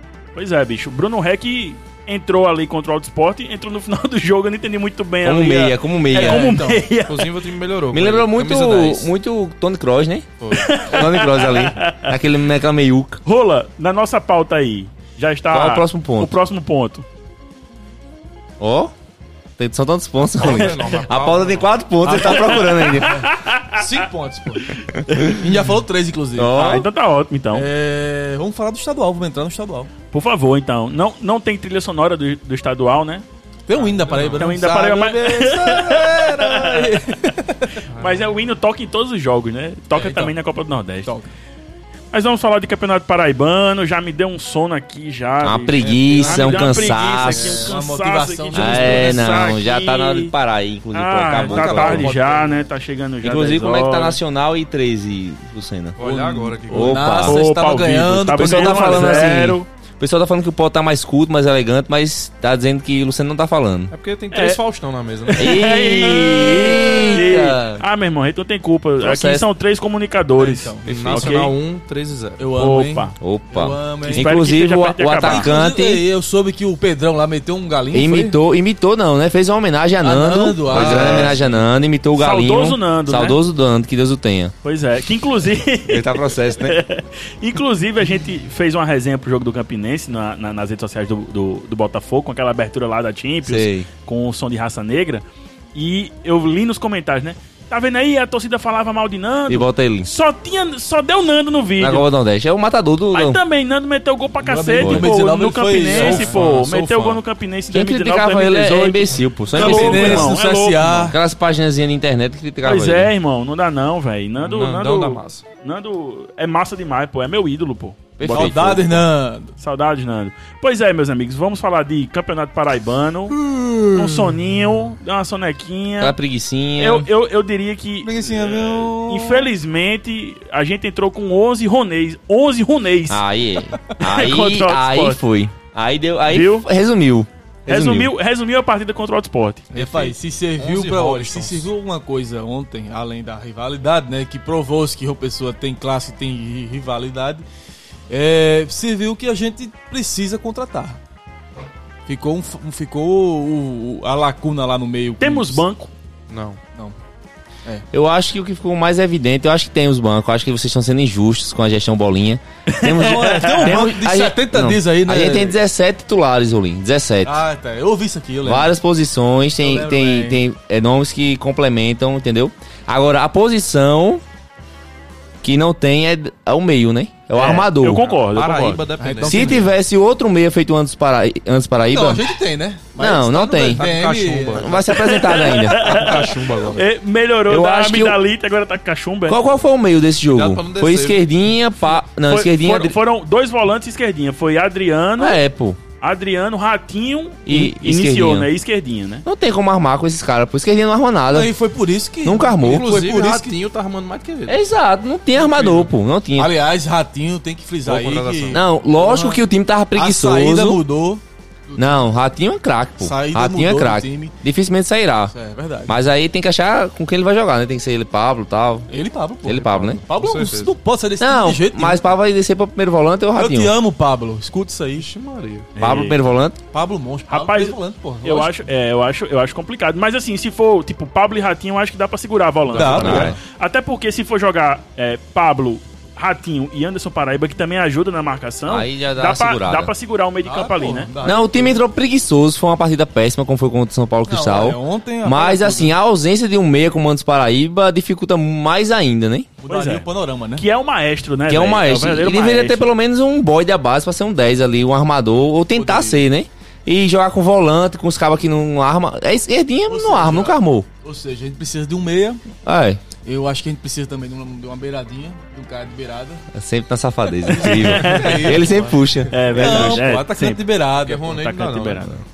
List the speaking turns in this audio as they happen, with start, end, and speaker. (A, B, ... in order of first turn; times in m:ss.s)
0:00.4-0:07.3 A
0:05.2-0:06.6 B
0:06.1-0:06.9 C
0:07.0-0:09.1 D
0:07.9-0:13.2 B
0:10.4-0:10.8 D
0:10.5-0:12.2 A
0:13.2-0:17.0 A
0:15.5-0:16.4 B
0:18.6-0:18.9 B
0:19.6-0:23.2 B
0:20.4-0:21.8 D
0:22.0-0:23.2 C
0:22.2-0:23.9 A
0:23.7-0:26.5 C
0:24.9-0:25.4 B
0:26.4-0:26.9 B
0:26.5-0:27.7 A
0:27.5-0:29.9 C
0:30.1-0:33.2 A
0:33.7-0:37.8 C
0:33.8-0:34.5 D
0:34.4-0:37.0 A
0:37.9-0:38.3 D
0:38.0-0:41.1 A
0:39.9-0:40.3 C
0:42.1-0:50.3 A
0:45.4-0:47.7 B
0:45.8-0:49.5 C
0:48.5-0:52.1 B
0:50.9-0:54.2 A
0:51.3-0:52.6 C
0:53.2-0:56.0 B
0:56.0-0:57.1 D
0:56.0-0:59.4 C
0:56.7-0:57.4 B
0:57.2-0:59.7 A
0:58.3-1:03.9 B
1:03.9-1:05.6 D
1:04.3-1:04.6 A
1:05.3-1:11.6 A
1:05.4-1:07.8 B
1:09.0-1:09.5 B
1:10.4-1:11.4 C
1:10.8-1:12.5 D
1:12.4-1:14.4 C
1:12.6-1:13.1 A
1:13.2-1:16.0 B
1:14.1-1:15.6 A
1:15.2-1:18.4 C
1:17.9-1:24.5 B
1:20.0-1:21.5 C
1:20.7-1:21.4 D
1:22.2-1:23.4 A
1:24.6-1:42.1 A
1:25.9-1:26.8 B
1:33.4-1:33.9 B
1:39.5-1:40.1 B
1:41.8-1:43.4 B
1:43.1-1:51.1 A
1:44.4-1:47.1 C
1:44.8-1:45.1 B
1:45.9-1:47.2 D
1:47.7-1:50.4 B
1:49.5-1:51.2 C
1:51.1-1:53.1 B
1:52.6-1:58.8 A
1:54.4-1:55.4 D
1:58.2-1:59.0 B
1:58.3-1:59.5 C
1:59.6-2:03.4 A
2:03.3-2:04.4 C
2:03.9-2:06.2 A
2:06.0-2:07.1 B
2:06.8-2:08.2 A
2:08.0-2:09.5 C
2:08.3-2:08.8 D
2:09.0-2:13.2 A
2:13.1-2:18.1 B
2:14.0-2:15.2 A
2:16.3-2:16.7 A
2:17.7-2:20.1 A
2:19.7-2:27.4 C
2:20.6-2:21.7 D
2:28.1-2:31.0 C
2:32.1-2:35.6 C
2:35.2-2:35.9 A
2:36.3-2:36.6 D
2:37.9-2:47.4 B
2:42.7-2:43.8 A
2:42.8-2:45.6 C
2:47.2-2:48.7 C
2:48.4-2:54.2 B
2:49.6-2:50.4 C
2:55.4-2:58.1 B
2:57.3-2:58.9 A
2:58.0-2:59.7 D
2:59.0-2:59.7 C
2:59.2-3:02.3 B
3:01.9-3:04.9 C
3:03.0-3:03.8 B
3:03.6-3:06.9 D
3:04.5-3:05.8 B
3:05.0-3:09.4 A
3:07.5-3:08.2 B
3:09.3-3:13.0 B
3:10.3-3:11.5 D
3:12.0-3:15.4 A
3:15.2-3:15.8 B
3:16.0-3:19.2 A
3:17.5-3:18.5 B
3:19.2-3:21.5 B
3:21.3-3:23.5 C
3:22.2-3:22.9 B
3:22.6-3:24.6 D
3:24.5-3:26.5 B
3:25.4-3:29.4 C
3:27.8-3:28.6 D
3:28.5-3:30.8 B
3:30.0-3:32.1 C
3:31.8-3:35.3 B
3:33.0-3:34.3 C
3:35.3-3:36.0 C
3:35.9-3:38.9 B
3:38.9-3:42.1 C
3:39.4-3:40.0 B
3:40.1-3:40.8 D
3:41.2-3:43.7 B
3:43.3-3:45.1 C
3:45.0-3:45.7 D
3:45.8-3:46.2 A
3:45.8-3:46.6 B
3:46.7-3:48.5 C
3:47.3-4:01.1 A
3:52.7-3:53.3 C
3:52.7-3:53.4 D
3:53.0-3:53.4 B
3:58.7-3:59.9 B
4:00.4-4:01.8 C
4:01.2-4:09.5 B
4:04.3-4:06.0 C
4:09.6-4:10.6 C
4:09.7-4:10.0 A
4:10.6-4:12.9 A
4:11.5-4:20.9 B
4:15.7-4:16.2 C
4:19.9-4:22.4 C
4:22.6-4:23.0 B
4:23.2-4:26.5 C
4:26.5-4:30.0 B
4:27.5-4:31.3 C
4:27.6-4:28.6 A
4:29.3-4:30.6 A
4:31.0-4:32.2 D
4:31.2-4:32.2 A